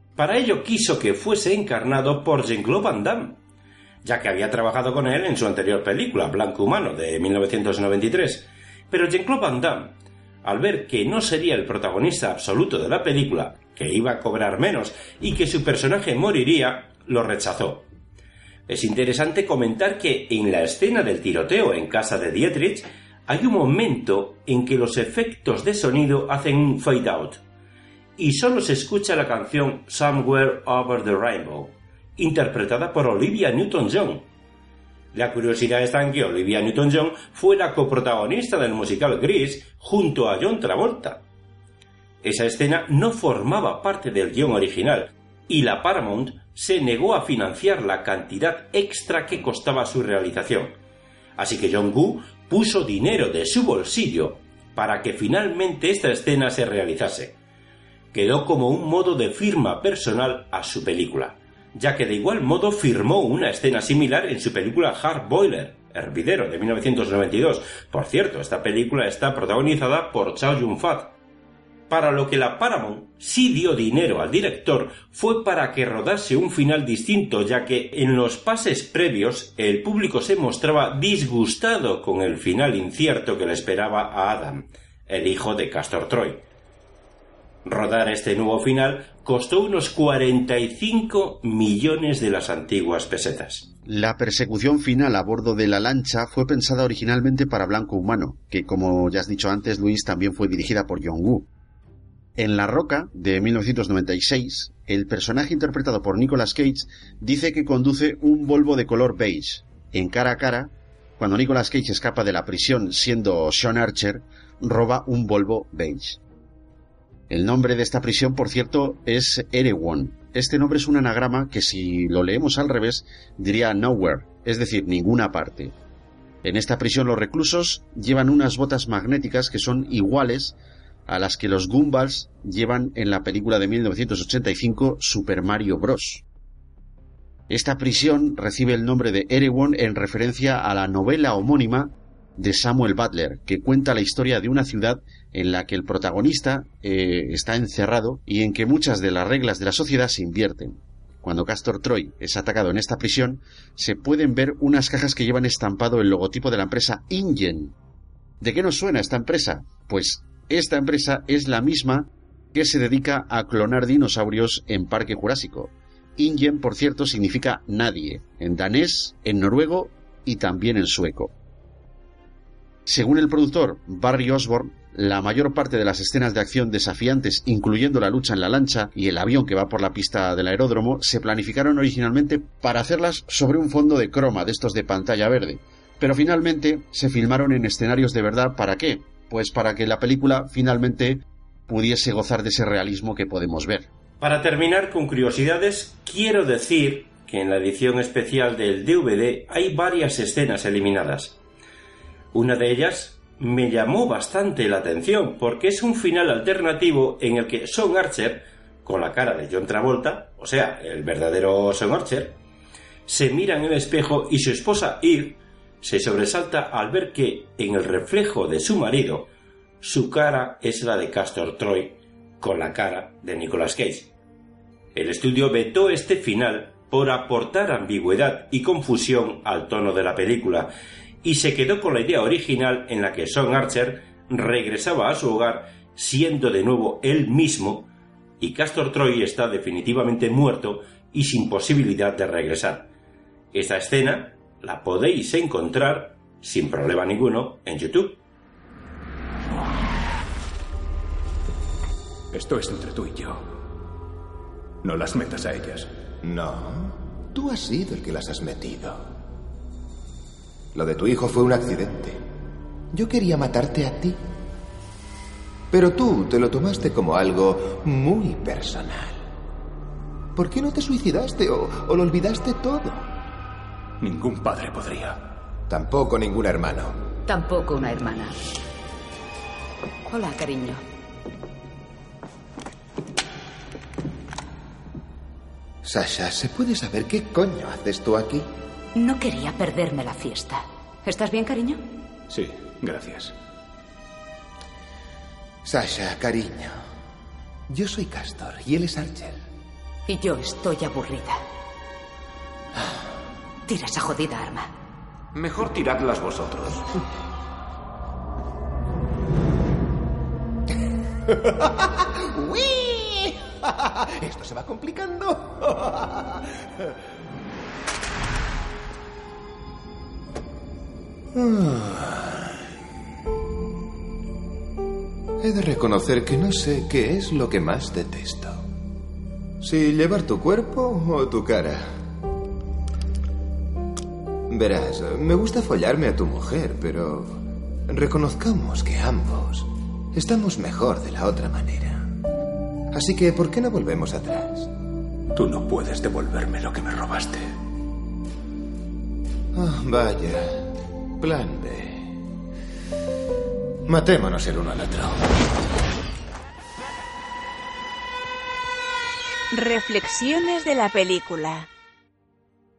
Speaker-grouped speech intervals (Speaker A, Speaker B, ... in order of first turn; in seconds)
Speaker A: 0.2-3.4, 4.0-17.9, 18.7-27.4, 28.2-34.2, 35.1-41.2, 42.2-50.7, 51.4-57.3, 58.1-71.1, 71.9-86.4, 87.6-93.7, 194.2-201.4, 202.3-212.4, 213.1-219.3, 219.8-224.1, 224.9-230.7, 231.2-237.9, 238.4-242.9, 243.5-248.2
Speaker B: 93.8-101.5, 102.3-116.2, 117.3-125.7, 126.4-130.6, 131.1-136.2, 137.5-157.7, 158.4-171.3, 172.8-193.9
Speaker C: 252.3-253.5, 254.8-255.9, 274.0-275.2, 292.3-293.3, 345.3-347.5
Speaker D: 256.2-259.0, 260.7-262.2, 262.9-264.2, 265.7-269.2, 270.3-273.1, 275.7-277.0, 285.8-288.4, 295.6-296.8, 297.7-299.4, 305.3-306.8, 311.4-316.4, 321.3-322.5, 325.4-328.6, 329.6-331.9, 334.5-342.1, 342.9-344.7, 349.5-352.2, 353.9-355.2
Speaker E: 277.3-278.4, 280.1-280.8, 288.9-291.8, 300.1-301.4, 303.7-304.7
Speaker F: 359.5-361.7